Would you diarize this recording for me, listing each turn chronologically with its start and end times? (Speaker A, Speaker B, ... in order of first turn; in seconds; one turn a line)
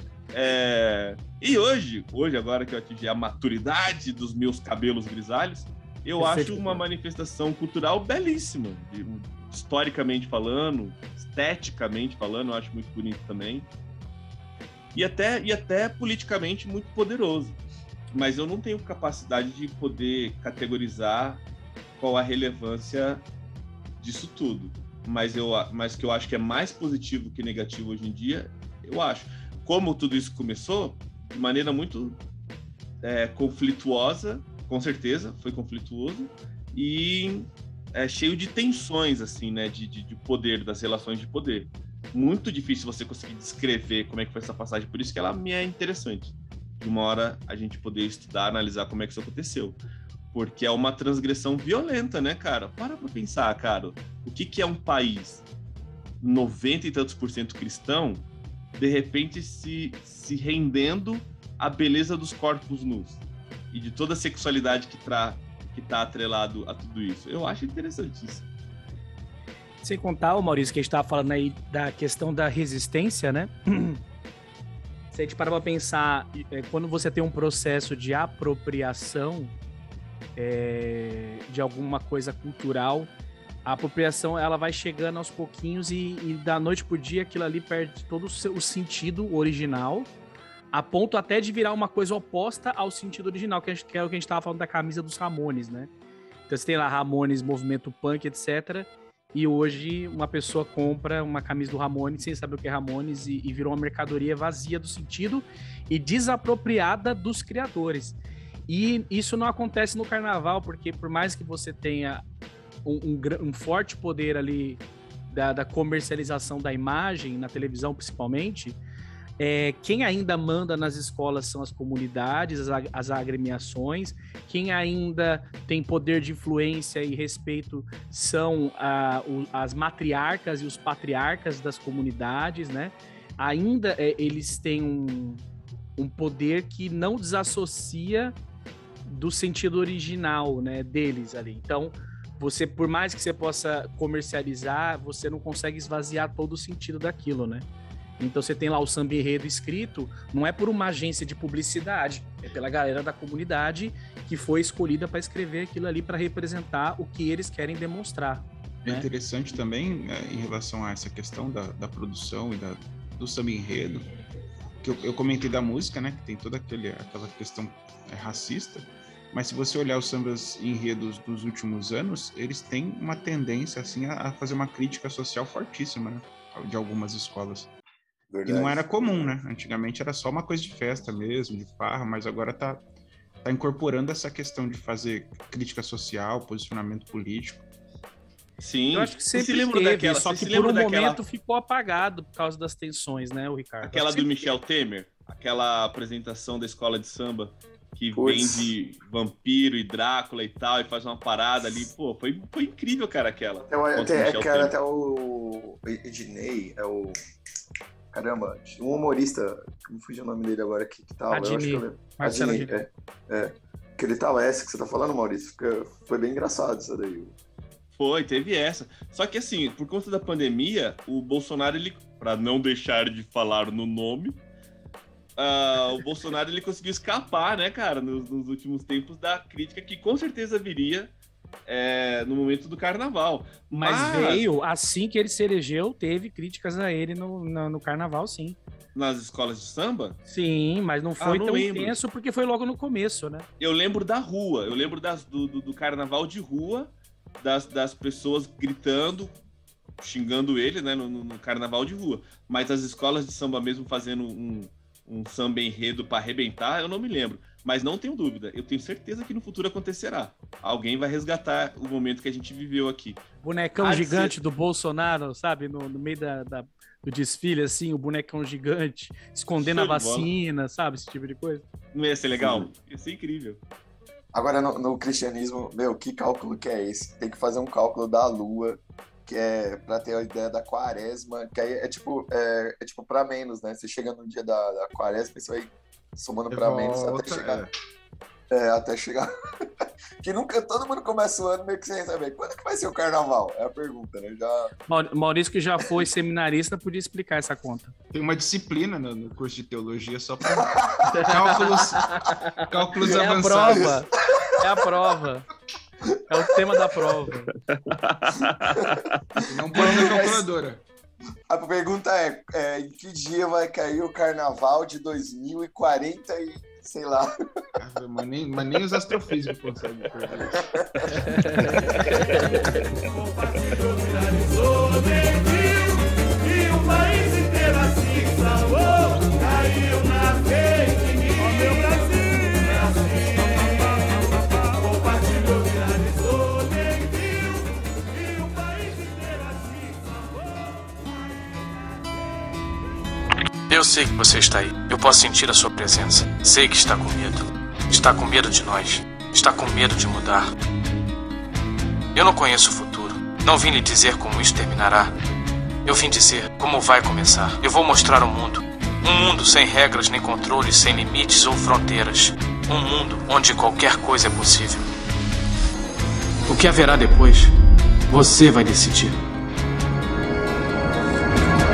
Speaker A: 0.3-13.7
Speaker B: 6.2-6.8
Speaker A: 14.9-17.6
Speaker A: 18.1-21.4
Speaker A: 21.9-23.2
Speaker A: 24.0-32.2
Speaker A: 33.0-49.8
Speaker A: 50.3-55.4
Speaker A: 56.2-68.5
Speaker B: 69.8-74.0
Speaker B: 75.1-79.5
Speaker B: 80.3-83.1
Speaker B: 83.6-90.1
Speaker B: 90.7-95.9
Speaker B: 96.5-112.2
Speaker B: 112.8-118.8
Speaker B: 119.4-135.4
Speaker B: 136.0-138.3
Speaker B: 139.1-147.7
Speaker B: 148.2-159.1
Speaker C: 158.8-164.1
Speaker C: 164.8-177.7
Speaker D: 178.3-179.4
Speaker C: 178.4-182.8
Speaker C: 183.4-187.7
Speaker A: 188.6-191.2
Speaker B: 188.9-194.4
Speaker A: 193.8-204.7
Speaker D: 198.1-198.7
Speaker D: 203.7-207.2
Speaker D: 208.1-217.3
Speaker B: 211.3-212.8
Speaker A: 217.9-224.4
Speaker A: 225.4-231.1
Speaker A: 231.7-234.4
Speaker B: 233.8-238.6
Speaker A: 238.9-240.2
Speaker B: 240.3-243.5
Speaker A: 241.2-242.0
Speaker A: 243.6-249.3
Speaker A: 250.0-263.2
Speaker B: 263.4-271.6
Speaker A: 263.8-264.3
Speaker A: 269.6-270.3
Speaker A: 271.9-273.6
Speaker D: 272.4-272.7
Speaker D: 274.3-287.6
Speaker C: 286.5-287.7
Speaker D: 288.5-289.3
Speaker D: 290.2-294.7
Speaker B: 294.9-297.9
Speaker C: 298.1-303.9
Speaker D: 300.6-301.6
Speaker B: 301.2-305.4
Speaker D: 303.1-304.6
Speaker D: 306.1-306.6
Speaker B: 306.3-307.5
Speaker A: 307.7-309.2
Speaker D: 308.7-309.1
Speaker C: 309.4-310.8
Speaker D: 309.7-310.5
Speaker D: 311.5-317.3
Speaker C: 317.8-322.1
Speaker E: 343.7-350.5
Speaker E: 352.1-355.1
Speaker E: 355.8-364.8
Speaker E: 366.4-367.5
Speaker E: 368.1-369.2